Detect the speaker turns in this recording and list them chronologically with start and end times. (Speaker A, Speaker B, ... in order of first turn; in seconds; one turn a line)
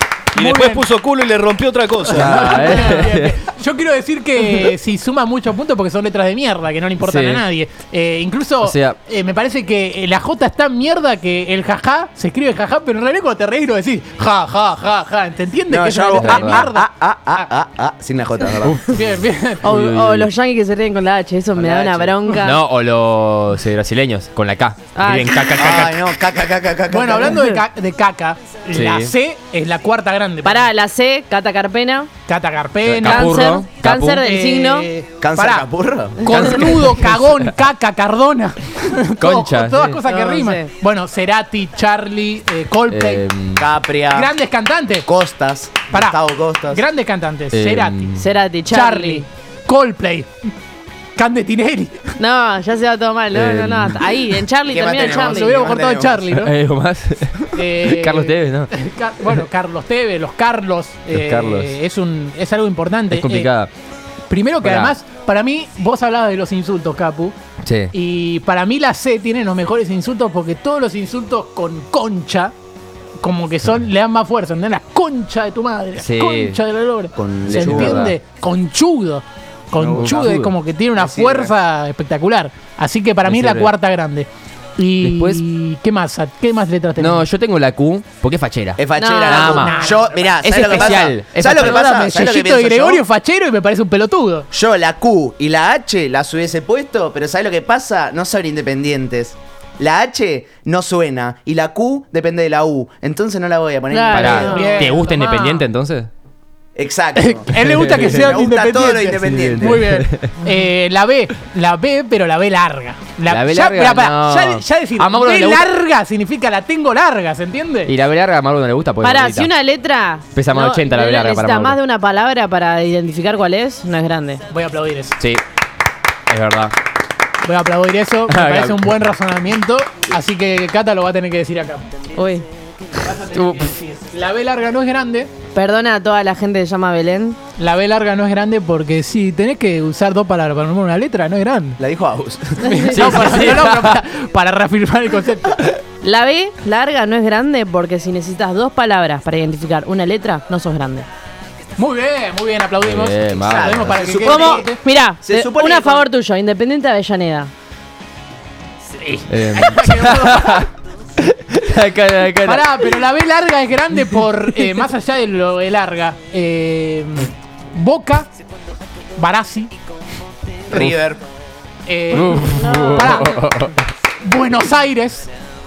Speaker A: 0.3-2.8
Speaker B: 0.4-0.8
Speaker B: 2.0-17.5
Speaker C: 2.1-3.4
Speaker C: 7.0-7.4
Speaker C: 8.6-8.9
Speaker D: 15.7-18.8
Speaker C: 16.1-16.7
Speaker C: 18.6-19.0
Speaker B: 18.9-19.7
Speaker C: 19.6-20.3
Speaker E: 19.6-22.6
Speaker D: 21.5-22.3
Speaker C: 22.4-26.1
Speaker E: 24.9-25.6
Speaker D: 25.6-27.5
Speaker B: 26.9-30.6
Speaker C: 28.7-29.1
Speaker E: 30.4-32.1
Speaker B: 32.3-33.5
Speaker C: 32.8-34.2
Speaker E: 33.0-34.9
Speaker B: 34.1-35.7
Speaker D: 35.2-36.2
Speaker B: 36.2-43.2
Speaker C: 36.3-37.5
Speaker C: 39.2-40.0
Speaker E: 40.0-40.7
Speaker C: 42.9-43.7
Speaker D: 43.5-44.3
Speaker B: 44.1-45.1
Speaker D: 45.0-46.8
Speaker B: 45.9-50.3
Speaker C: 47.5-48.3
Speaker E: 48.1-49.2
Speaker B: 51.1-52.1
Speaker E: 52.1-55.5
Speaker C: 53.3-54.0
Speaker D: 54.7-56.3
Speaker B: 55.0-56.5
Speaker C: 56.3-58.7
Speaker B: 57.5-63.5
Speaker C: 61.1-61.8
Speaker C: 63.1-63.7
Speaker B: 64.3-67.3
Speaker C: 64.6-64.9
Speaker C: 67.6-67.9
Speaker B: 67.9-72.5
Speaker B: 73.2-87.2
Speaker C: 76.0-76.6
Speaker D: 77.2-78.1
Speaker C: 77.5-78.2
Speaker D: 79.8-80.4
Speaker C: 80.0-80.5
Speaker D: 81.0-81.5
Speaker C: 83.2-83.7
Speaker C: 85.0-85.4
Speaker C: 87.0-89.8
Speaker D: 88.8-93.0
Speaker E: 88.9-89.5
Speaker B: 89.3-90.3
Speaker C: 90.4-92.0
Speaker B: 91.5-94.5
Speaker D: 94.5-104.7
Speaker E: 103.9-105.6
Speaker C: 104.1-106.1
Speaker B: 104.4-105.4
Speaker D: 106.8-109.9
Speaker B: 107.2-117.9
Speaker C: 107.5-108.3
Speaker C: 109.1-110.3
Speaker C: 113.3-115.7
Speaker C: 117.8-119.5
Speaker E: 119.0-124.4
Speaker C: 120.3-121.8
Speaker B: 124.5-125.2
Speaker C: 126.3-126.7
Speaker B: 127.4-131.9
Speaker C: 128.3-128.9
Speaker E: 132.2-132.4
Speaker B: 133.0-135.3
Speaker C: 133.3-133.7
Speaker E: 135.5-137.4
Speaker B: 137.6-141.8
Speaker D: 141.8-142.7
Speaker B: 142.6-145.7
Speaker E: 142.6-143.0
Speaker C: 142.9-143.9
Speaker E: 146.0-151.1
Speaker B: 151.8-154.8
Speaker C: 152.8-154.0
Speaker D: 153.4-154.7
Speaker E: 154.2-157.5
Speaker D: 155.2-156.1
Speaker B: 158.9-160.7
Speaker C: 159.3-160.7
Speaker C: 161.2-162.9
Speaker B: 162.4-168.3
Speaker B: 169.2-169.7
Speaker D: 170.7-171.2
Speaker B: 171.8-173.4
Speaker C: 172.1-173.7
Speaker E: 172.6-173.3
Speaker B: 174.2-175.3